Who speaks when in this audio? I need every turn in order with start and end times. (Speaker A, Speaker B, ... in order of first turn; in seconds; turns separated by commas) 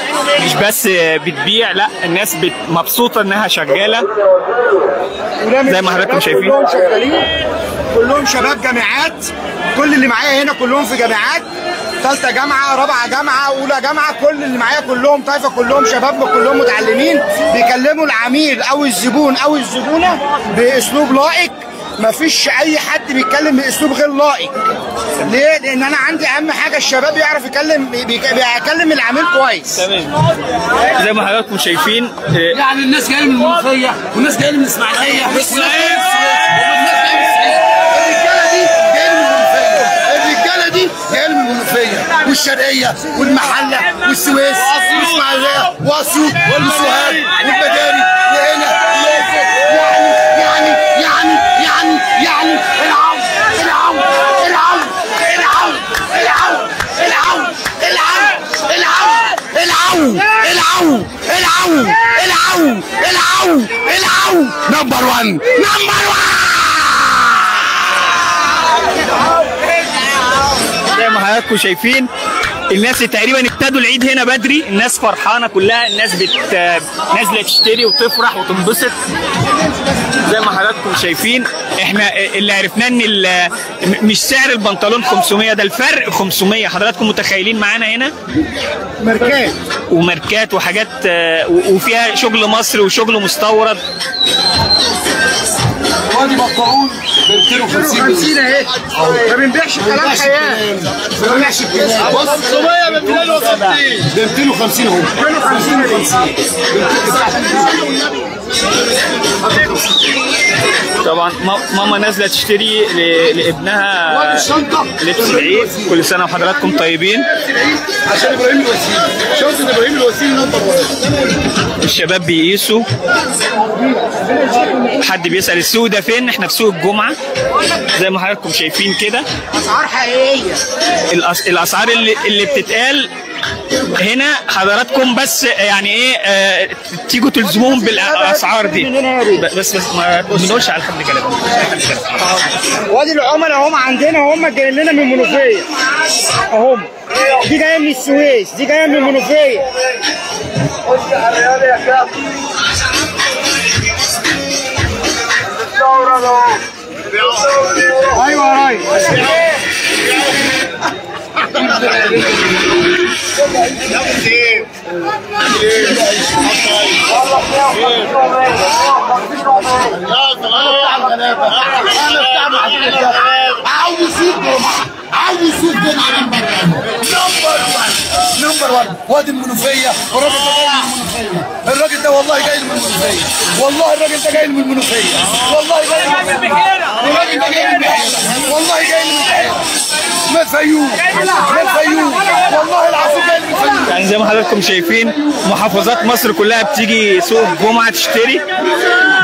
Speaker A: 0.4-4.0, Speaker B: 5.4-7.3, Speaker A: 5.6-6.5, Speaker B: 7.9-11.4, Speaker B: 12.0-24.5, Speaker B: 25.2-29.9, Speaker A: 29.7-30.1, Speaker A: 30.9-32.6, Speaker C: 32.5-68.2, Speaker A: 70.9-72.1, Speaker A: 72.7-79.0, Speaker A: 80.2-88.1, Speaker B: 89.0-89.5, Speaker A: 89.9-93.8, Speaker C: 96.1-98.3, Speaker B: 97.7-100.6, Speaker C: 99.0-99.3, Speaker C: 99.8-102.4, Speaker B: 102.2-102.9, Speaker A: 102.5-103.8, Speaker C: 103.9-105.2, Speaker B: 105.2-106.1, Speaker C: 106.8-107.6, Speaker A: 111.0-117.3, Speaker C: 114.1-116.0, Speaker C: 117.3-120.9, Speaker A: 121.8-122.8, Speaker A: 125.0-127.1, Speaker A: 127.9-129.2, Speaker B: 129.6-130.6, Speaker A: 131.1-133.1, Speaker A: 134.0-142.2, Speaker B: 137.6-139.4, Speaker B: 142.9-145.7, Speaker B: 146.5-149.7, Speaker B: 158.1-159.0, Speaker C: 170.2-189.6, Speaker C: 190.3-193.9, Speaker A: 193.8-198.4